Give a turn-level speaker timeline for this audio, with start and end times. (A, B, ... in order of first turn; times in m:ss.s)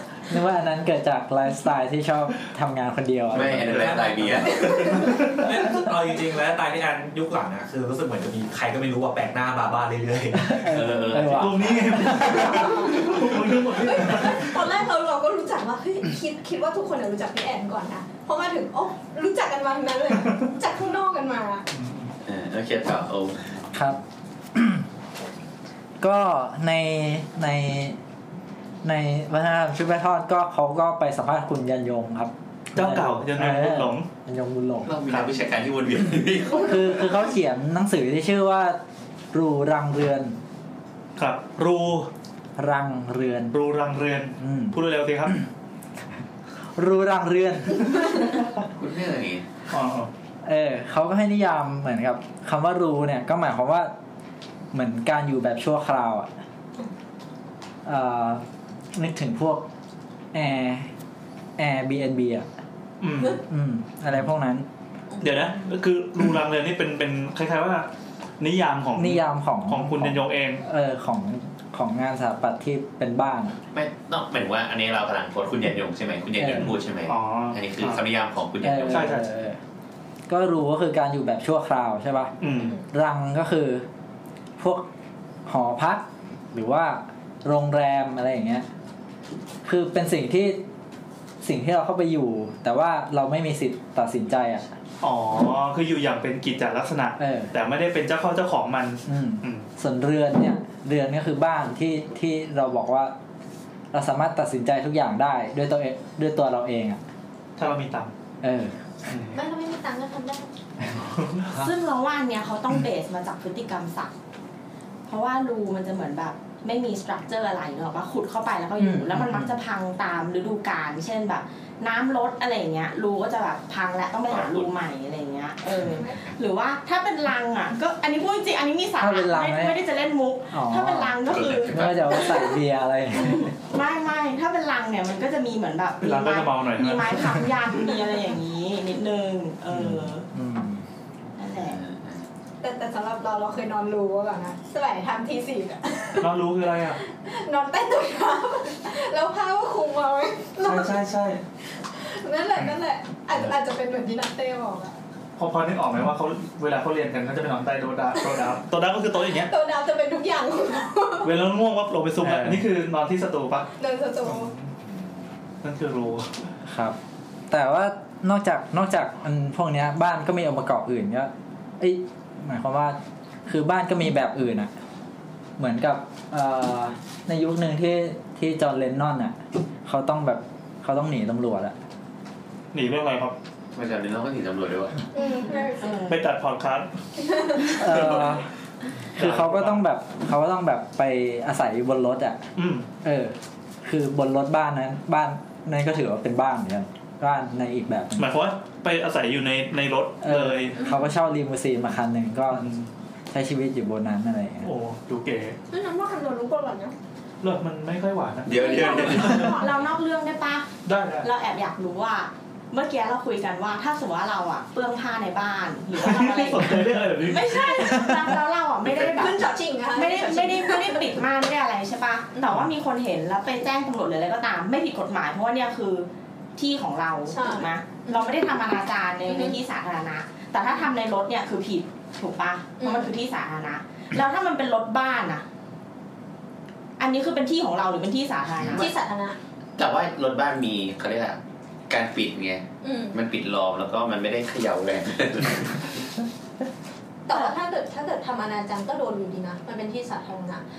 0:00.3-0:04.0 A
0:03.3-0:04.9 B
0:03.4-0:10.6 C
0:10.4-0:12.7 A
0:10.7-0:11.7 B
0:11.3-0:14.6 D
0:12.1-0:21.6 E
0:21.7-0:22.1 D
0:22.2-0:23.7 B
0:23.7-0:24.0 A
0:24.5-0:24.8 A
0:26.0-0:28.0 A
0:28.8-0:34.9 A
0:32.8-0:34.1 D
0:34.8-0:37.0 B
0:36.6-0:38.8 A
0:39.3-0:40.4 A
0:41.2-0:42.1 D
0:42.6-0:43.6 A
0:43.5-0:45.4 D
0:44.4-0:45.4 A
0:46.8-0:48.1 A
0:48.8-0:49.4 B
0:49.7-0:50.1 D
0:50.4-0:53.9 A
0:54.7-0:56.3 A
0:57.8-0:58.4 A
0:59.0-0:59.6 A
1:00.3-1:00.9 A
1:01.6-1:02.5 A
1:03.0-1:03.4 D
1:03.4-1:04.7 A
1:05.2-1:05.5 E
1:05.2-1:07.9 D
1:08.4-1:10.6 D
1:09.0-1:13.6 A
1:13.7-1:19.1 B
1:16.4-1:16.7 A
1:16.5-1:18.0 D
1:18.6-1:19.6 A
1:18.9-1:19.2 D
1:20.3-1:22.3 A
1:22.4-1:22.8 D
1:22.9-1:23.9 A
1:24.6-1:24.9 A
1:25.5-1:28.7 A
1:29.6-1:30.6 A
1:31.4-1:34.7 A
1:35.0-1:39.6 D
1:37.2-1:37.5 A
1:39.1-1:43.1 A
1:43.9-1:47.0 A
1:47.6-1:48.1 D
1:48.4-1:48.8 A
1:49.1-1:49.4 D
1:49.3-1:50.5 E
1:51.0-1:51.5 D
1:51.5-1:54.1 F
1:55.1-2:12.3 F
1:58.8-1:59.6 A
2:04.3-2:04.7 B
2:09.0-2:09.8 A
2:10.5-2:11.2 A
2:11.3-2:12.2 B
2:11.7-2:13.5 A
2:13.2-2:20.3 F
2:16.0-2:17.4 D
2:19.7-2:20.8 A
2:21.4-2:21.8 F
2:21.6-2:22.2 B
2:22.6-2:26.3 E
2:26.2-2:27.0 D
2:27.2-2:31.0 E
2:30.6-2:31.4 D
2:32.0-2:35.0 E
2:35.4-2:39.5 D
2:39.4-2:41.3 E
2:41.2-2:43.7 D
2:42.2-2:42.6 A
2:43.8-2:44.5 E
2:44.2-2:44.7 D
2:45.6-2:46.4 D
2:46.6-2:47.0 A
2:47.5-2:54.7 A
2:55.6-3:01.8 A
3:02.7-3:03.4 D
3:03.7-3:05.0 B
3:05.2-3:06.1 E
3:05.8-3:06.2 F
3:06.1-3:06.9 D
3:07.6-3:08.4 D
3:07.8-3:08.4 A
3:09.2-3:09.8 D
3:09.2-3:12.4 A
3:12.6-3:12.8 D
3:13.0-3:18.3 A
3:18.2-3:20.8 D
3:20.2-3:22.7 A
3:20.8-3:21.1 E
3:22.5-3:22.9 D
3:23.3-3:24.7 A
3:24.6-3:25.6 D
3:25.7-3:27.0 E
3:27.4-3:29.6 D
3:28.4-3:29.6 B
3:28.6-3:29.7 E
3:28.9-3:30.7 F
3:30.8-3:31.3 D
3:31.2-3:55.4 F
3:36.0-3:38.3 D
3:39.0-3:41.2 E
3:47.3-3:48.3 E
3:49.3-3:49.6 E
3:52.8-3:53.1 E
3:57.0-3:58.9 F
3:58.6-3:58.9 B
3:58.7-3:59.4 E
3:59.8-4:06.0 B
4:02.8-4:03.2 E
4:07.3-4:10.6 E